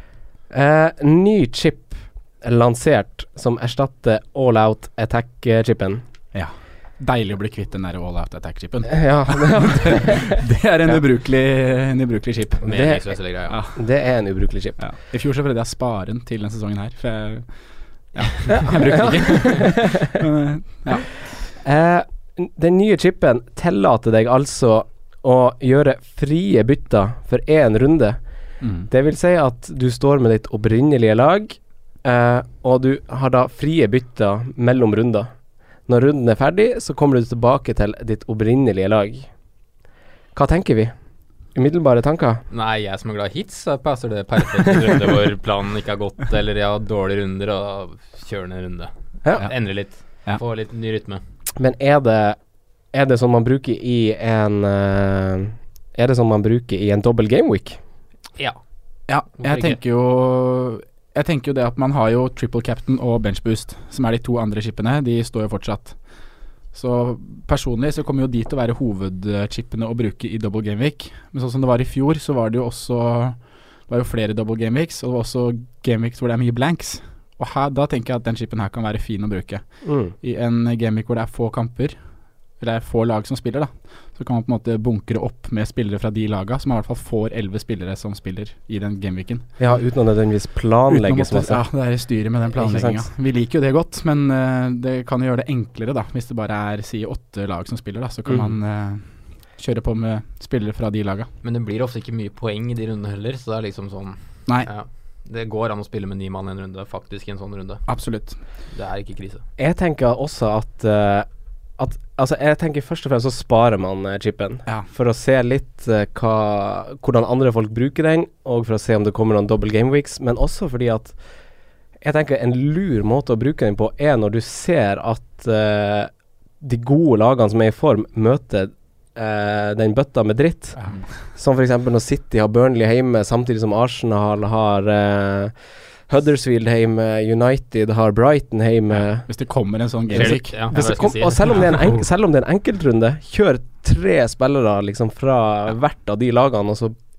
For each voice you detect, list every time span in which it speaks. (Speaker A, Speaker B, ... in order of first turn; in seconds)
Speaker A: 0.5-6.0, 8.9-11.0, 12.7-13.1, 13.7-14.8, 18.5-20.1, 21.6-28.2, 28.9-35.3, 35.9-39.3, 40.4-40.9, 41.5-42.4, 51.6-52.4, 52.9-57.8, 79.8-80.1, 89.6-91.6, 92.5-93.0, 109.6-111.3, 111.8-121.2, 122.0-130.8, 131.3-135.6, 136.1-139.3, 140.1-147.0
Speaker B: 6.3-12.7, 13.5-13.8, 14.8-17.5, 18.1-21.2, 28.6-28.9, 59.1-66.0, 66.7-82.0, 82.6-89.5, 90.9-101.3, 107.9-108.4, 130.8-131.1, 139.0-140.6
Speaker C: 12.6-13.6, 42.5-51.2, 59.4-59.8, 101.4-107.8, 108.7-109.4, 140.1-142.0